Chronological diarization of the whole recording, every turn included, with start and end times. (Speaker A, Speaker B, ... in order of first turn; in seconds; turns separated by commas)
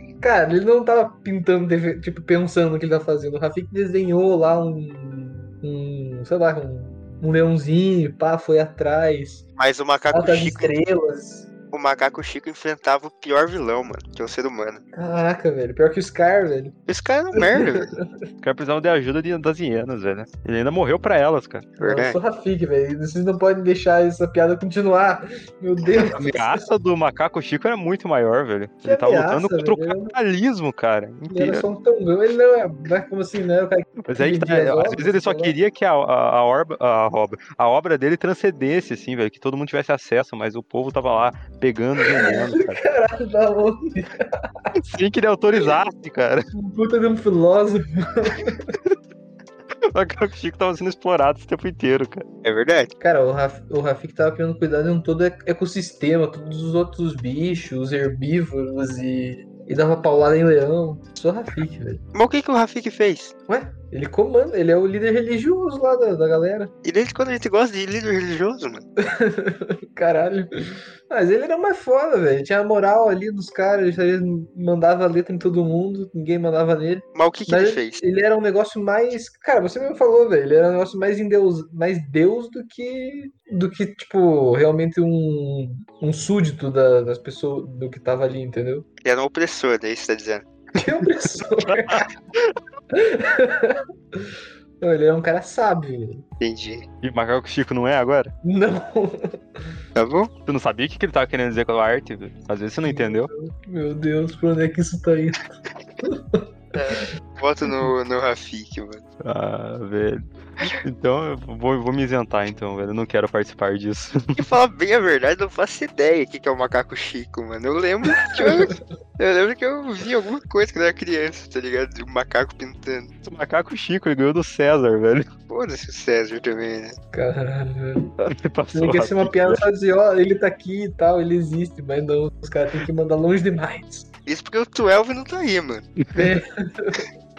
Speaker A: 0.2-9.4, Speaker B: 9.6-10.8, Speaker A: 10.1-11.5, Speaker B: 11.7-14.8, Speaker A: 14.9-16.8, Speaker B: 16.9-17.9, Speaker A: 17.3-18.1, Speaker C: 18.4-21.7, Speaker B: 21.8-22.2, Speaker A: 21.8-26.6, Speaker C: 26.1-31.6, Speaker A: 28.8-30.1, Speaker A: 31.3-35.5, Speaker C: 34.0-42.8, Speaker A: 42.0-44.7, Speaker C: 44.8-46.5, Speaker A: 46.5-48.7, Speaker C: 49.9-52.2, Speaker B: 52.4-52.9, Speaker A: 53.0-62.0, Speaker B: 62.1-63.3, Speaker A: 63.5-66.7, Speaker B: 66.8-68.8, Speaker A: 69.0-88.8, Speaker B: 77.1-78.0, Speaker B: 89.0-90.5, Speaker A: 90.8-92.1, Speaker C: 91.7-92.5, Speaker A: 92.9-96.2, Speaker B: 96.4-96.8, Speaker C: 97.0-98.3, Speaker A: 98.4-99.7, Speaker B: 100.0-100.3, Speaker C: 100.5-103.3, Speaker A: 102.8-105.5, Speaker A: 106.0-107.0, Speaker B: 106.7-109.0, Speaker C: 109.2-114.5, Speaker B: 114.3-123.1, Speaker A: 118.3-118.8, Speaker C: 123.2-125.3, Speaker B: 125.5-127.0, Speaker A: 127.1-128.1, Speaker C: 128.2-129.6, Speaker A: 128.7-134.1, Speaker B: 134.2-135.9, Speaker A: 136.1-137.1